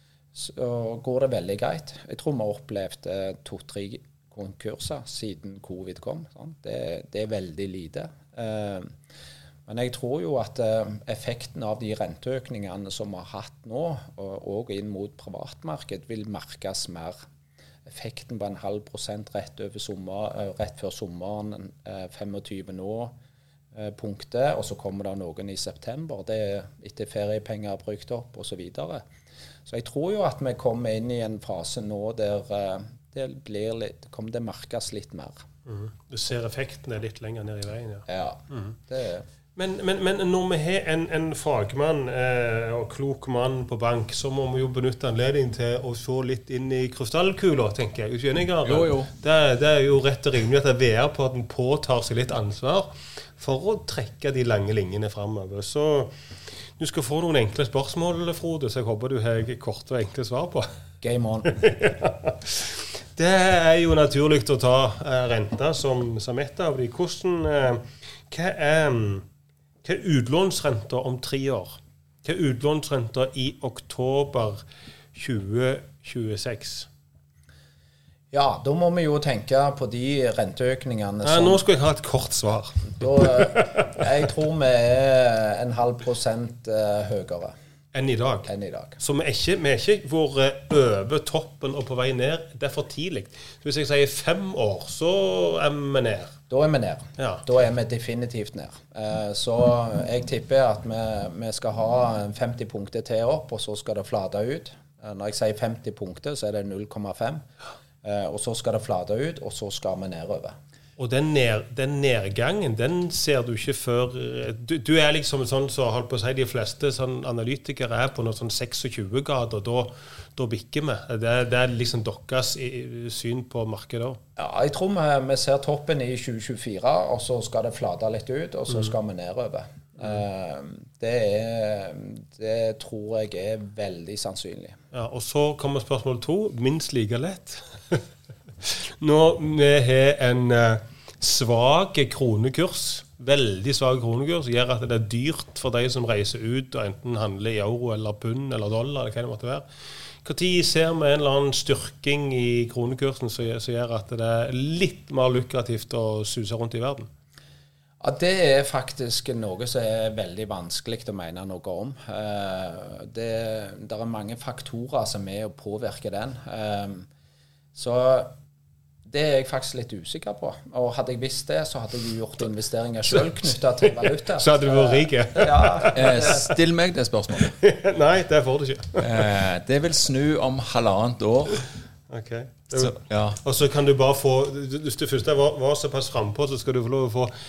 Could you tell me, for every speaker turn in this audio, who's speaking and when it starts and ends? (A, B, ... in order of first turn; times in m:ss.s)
0:00.4-0:08.9 A
0:09.7-0:17.2 A
0:17.9-0:23.1 A
0:23.7-0:29.0 A
0:29.7-0:35.4 A
0:35.7-0:38.6 B
0:38.1-0:39.2 A
0:39.6-0:56.1 B
0:48.6-0:49.1 C
0:56.8-1:00.7 B
1:01.0-1:01.6 A
1:01.5-1:09.3 B
1:09.8-1:14.6 B
1:15.2-1:16.9 B
1:18.3-1:21.6 A
1:21.2-1:23.8 B
1:23.0-1:27.5 A
1:27.9-1:28.5 B
1:28.5-1:29.0 A
1:29.0-1:36.3 B
1:36.5-1:47.4 A
1:37.2-1:37.4 B
1:48.0-1:50.6 A
1:51.0-2:04.2 B
2:04.4-2:14.8 A
2:14.9-2:18.0 B
2:18.6-2:29.6 B
2:30.2-2:37.1 B
2:38.0-2:47.1 A
2:47.8-2:48.3 A
2:49.1-2:56.5 A
2:54.1-2:56.4 B
2:56.0-2:57.6 C
2:57.6-2:59.3 B
2:59.0-3:01.6 C
3:02.1-3:07.3 B
3:02.7-3:03.4 C